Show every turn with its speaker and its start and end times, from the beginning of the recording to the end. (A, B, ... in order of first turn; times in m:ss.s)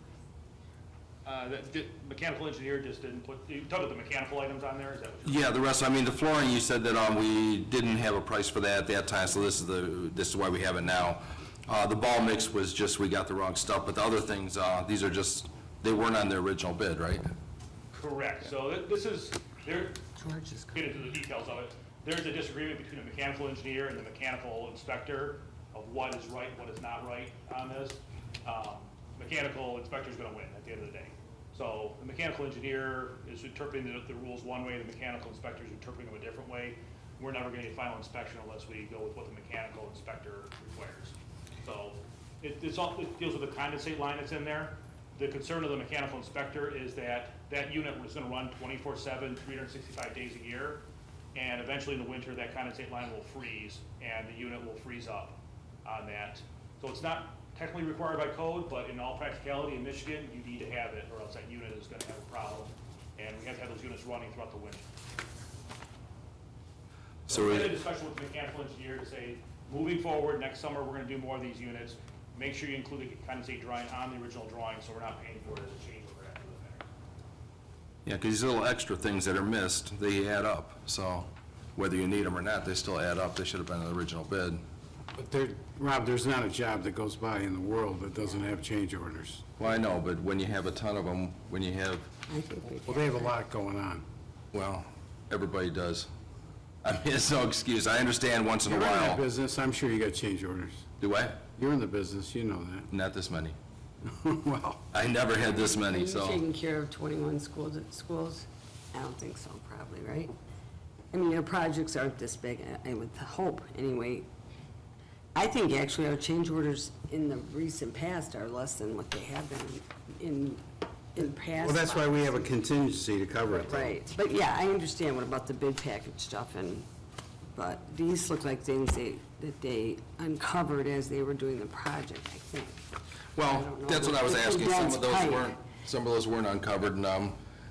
0:01.2-0:05.5 A
0:05.2-0:17.2 B
0:17.9-0:20.1 A
0:20.2-0:20.8 C
0:20.7-0:50.8 A
0:51.3-1:04.8 A
1:07.2-1:07.7 B
1:07.3-1:16.8 A
1:18.0-1:24.6 B
1:25.2-1:29.5 D
1:29.6-1:32.1 B
1:32.3-1:33.3 C
1:32.8-1:34.0 D
1:34.5-1:36.1 B
1:36.8-1:39.2 B
1:38.6-1:40.9 D
1:41.0-1:41.4 B
1:41.5-1:42.9 D
1:42.9-1:43.6 B
1:44.0-1:44.8 D
1:44.9-1:46.4 B
1:45.4-1:50.3 C
1:51.1-1:54.2 C
1:55.3-2:02.4 C
2:01.5-2:04.0 D
2:03.6-2:06.9 C
2:07.5-2:12.8 C
2:13.3-2:17.4 B
2:13.4-2:15.6 C